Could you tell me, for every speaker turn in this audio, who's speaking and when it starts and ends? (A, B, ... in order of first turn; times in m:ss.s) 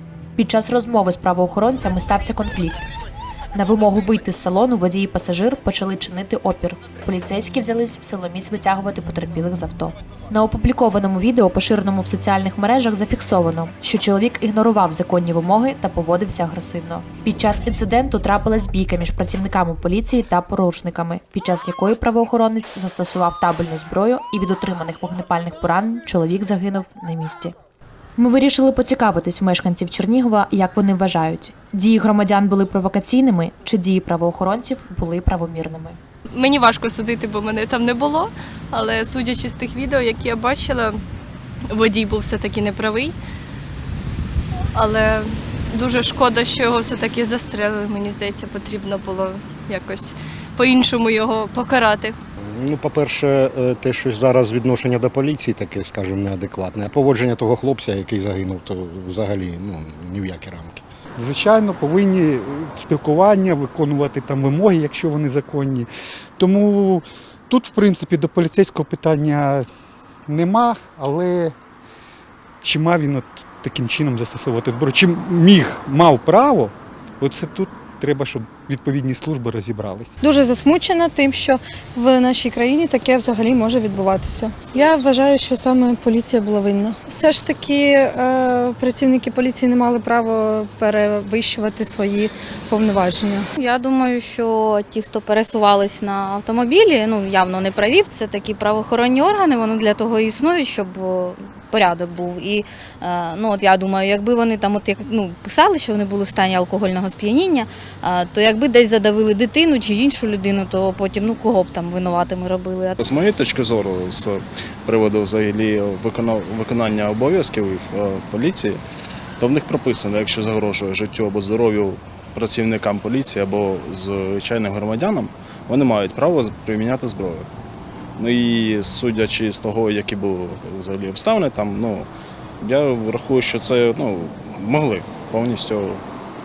0:00.4-0:02.9 A
0:03.5-0:27.6 A
0:28.2-0:36.0 A
0:36.3-0:41.0 B
0:41.7-0:43.2 B
0:44.7-0:52.2 B
0:52.5-1:00.8 C
1:01.2-1:09.7 D
1:10.3-1:11.6 D
1:12.6-1:20.2 D
1:20.2-1:33.5 E
1:33.6-1:53.0 F
1:53.0-1:58.8 G
1:59.4-2:07.5 G
2:08.2-2:16.0 G